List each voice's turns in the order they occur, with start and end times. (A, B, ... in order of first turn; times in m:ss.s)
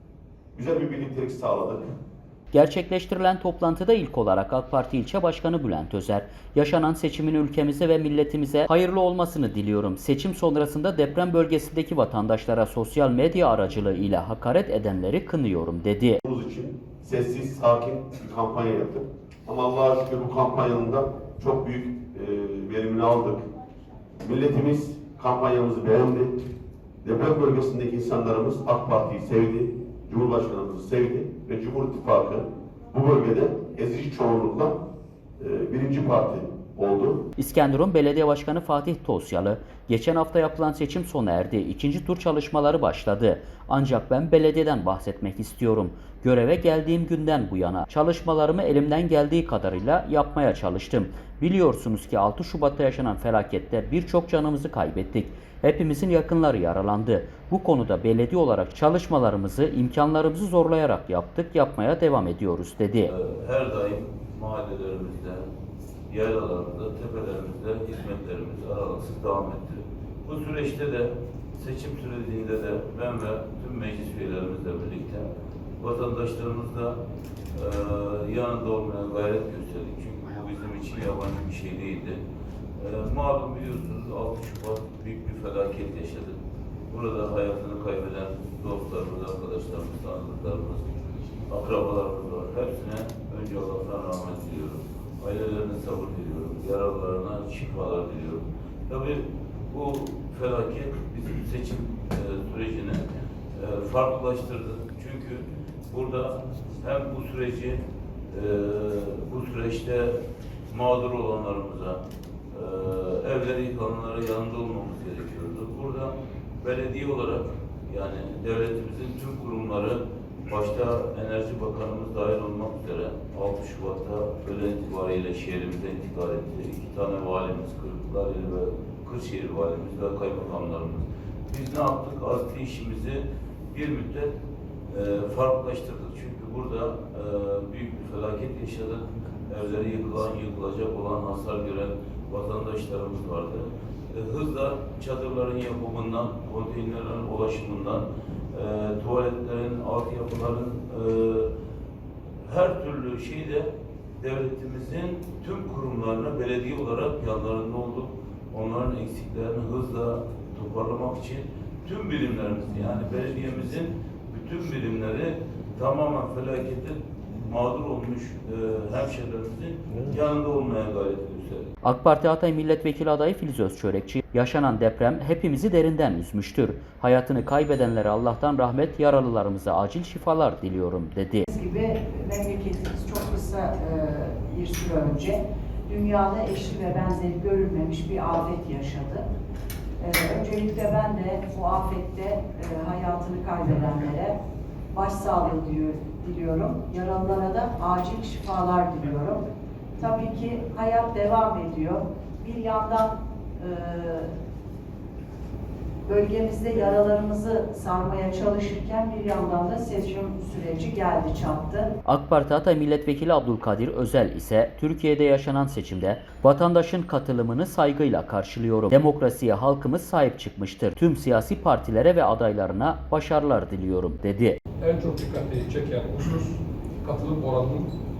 0:00.5-0:01.8 A
0:02.5-0:16.2 B
0:16.2-0:23.4 A
0:24.2-0:26.3 A
0:27.0-0:34.7 A
0:35.4-0:37.2 A
0:37.4-1:03.1 B
1:03.1-1:05.4 C
1:06.1-1:15.3 C
1:15.8-1:17.0 C
1:17.5-1:22.2 C
1:22.8-1:26.4 C
1:26.9-1:30.9 C
1:31.5-2:14.3 C
2:14.9-2:31.5 C
2:32.4-2:51.7 C
2:51.8-3:01.5 B
3:01.5-3:09.2 D
3:10.0-3:14.3 D
3:14.9-3:19.4 D
3:20.0-3:24.3 D
3:26.1-3:31.9 D
3:32.1-3:44.6 B
3:44.8-3:47.9 E